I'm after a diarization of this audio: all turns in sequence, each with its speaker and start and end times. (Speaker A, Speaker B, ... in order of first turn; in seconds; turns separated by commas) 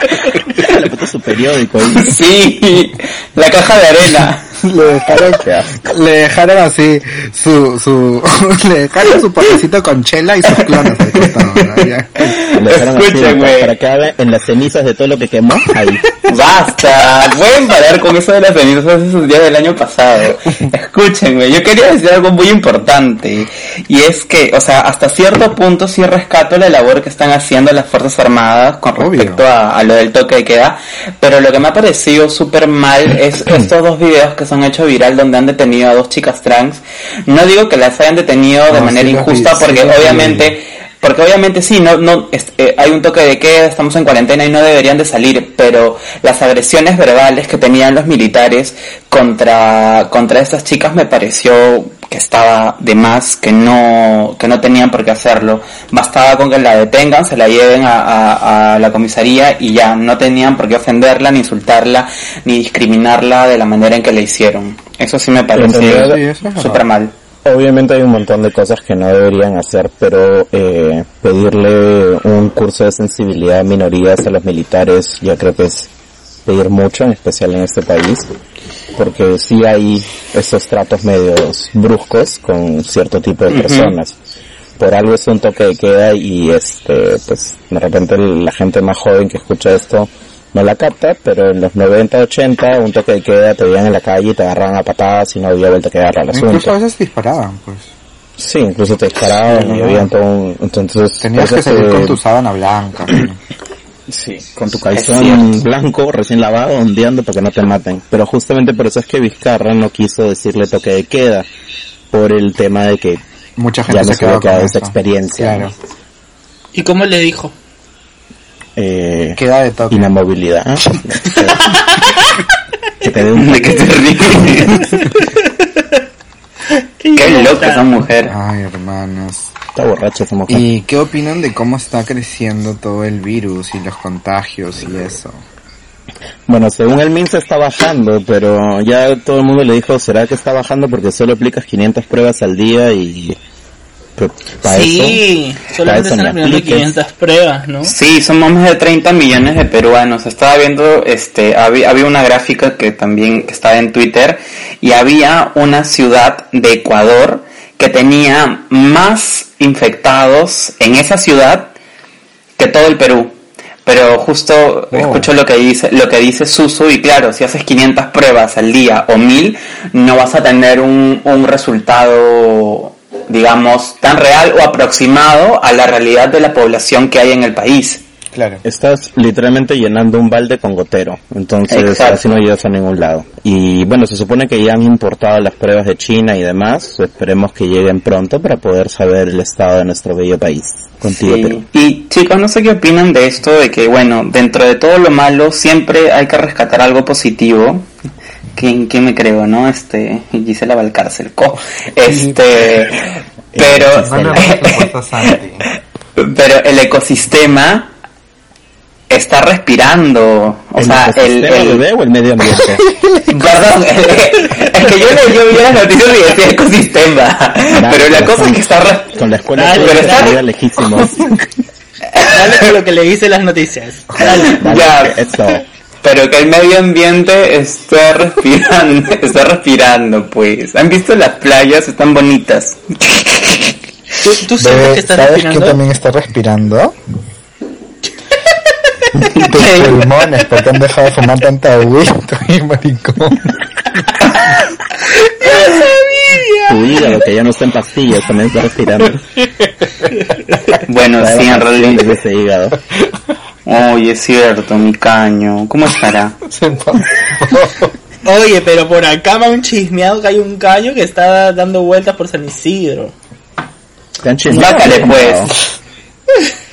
Speaker A: 0.4-2.2, Speaker B: 1.9-4.4, Speaker C: 4.6-12.3, Speaker A: 5.1-5.8, Speaker B: 10.5-13.7, Speaker A: 12.5-16.0, Speaker B: 16.2-67.1, Speaker C: 28.9-29.4, Speaker C: 38.7-40.6, Speaker A: 65.5-66.2, Speaker C: 65.7-66.8, Speaker A: 67.4-75.9, Speaker A: 76.4-78.3, Speaker A: 78.9-84.2, Speaker B: 83.5-83.9, Speaker A: 84.8-96.7, Speaker C: 96.3-97.9, Speaker A: 98.4-102.2, Speaker C: 99.4-100.1, Speaker C: 101.2-103.4, Speaker A: 104.1-111.5, Speaker B: 104.9-105.6, Speaker A: 112.1-113.2, Speaker C: 113.6-115.7, Speaker A: 113.9-115.7, Speaker D: 116.7-117.5, Speaker A: 118.8-119.4, Speaker C: 119.3-120.2, Speaker A: 119.9-122.0, Speaker D: 121.6-122.4, Speaker A: 123.0-124.5, Speaker B: 123.3-124.9, Speaker D: 124.8-126.0, Speaker D: 126.7-127.9, Speaker B: 127.1-128.3, Speaker C: 128.2-129.5, Speaker A: 129.7-130.6, Speaker C: 130.5-135.4, Speaker A: 136.5-143.4, Speaker A: 144.2-145.2, Speaker D: 144.6-147.9, Speaker A: 145.8-146.9, Speaker B: 147.8-161.7, Speaker B: 162.6-163.3, Speaker B: 163.8-178.0, Speaker C: 164.9-165.3, Speaker C: 178.3-178.6, Speaker A: 178.6-191.6, Speaker B: 181.7-182.2, Speaker B: 191.1-197.8, Speaker B: 198.6-205.3, Speaker C: 202.0-202.4, Speaker A: 203.5-204.5, Speaker C: 204.0-205.7, Speaker B: 206.2-207.9, Speaker B: 209.1-211.8, Speaker A: 210.8-212.8, Speaker C: 212.7-213.4, Speaker B: 213.3-220.4, Speaker A: 217.7-221.5, Speaker D: 219.6-220.3, Speaker D: 222.2-224.6, Speaker B: 224.2-225.2, Speaker A: 224.2-225.6, Speaker B: 226.0-233.7, Speaker D: 234.2-235.8, Speaker C: 234.6-236.9, Speaker B: 239.2-240.0, Speaker C: 239.4-243.6, Speaker D: 245.1-247.2, Speaker A: 246.7-249.2, Speaker D: 250.1-250.7, Speaker B: 250.8-252.1, Speaker A: 251.2-252.8, Speaker B: 253.7-256.4, Speaker C: 256.4-257.9, Speaker D: 258.2-263.1, Speaker A: 264.2-265.5, Speaker B: 264.5-265.6, Speaker D: 264.6-264.9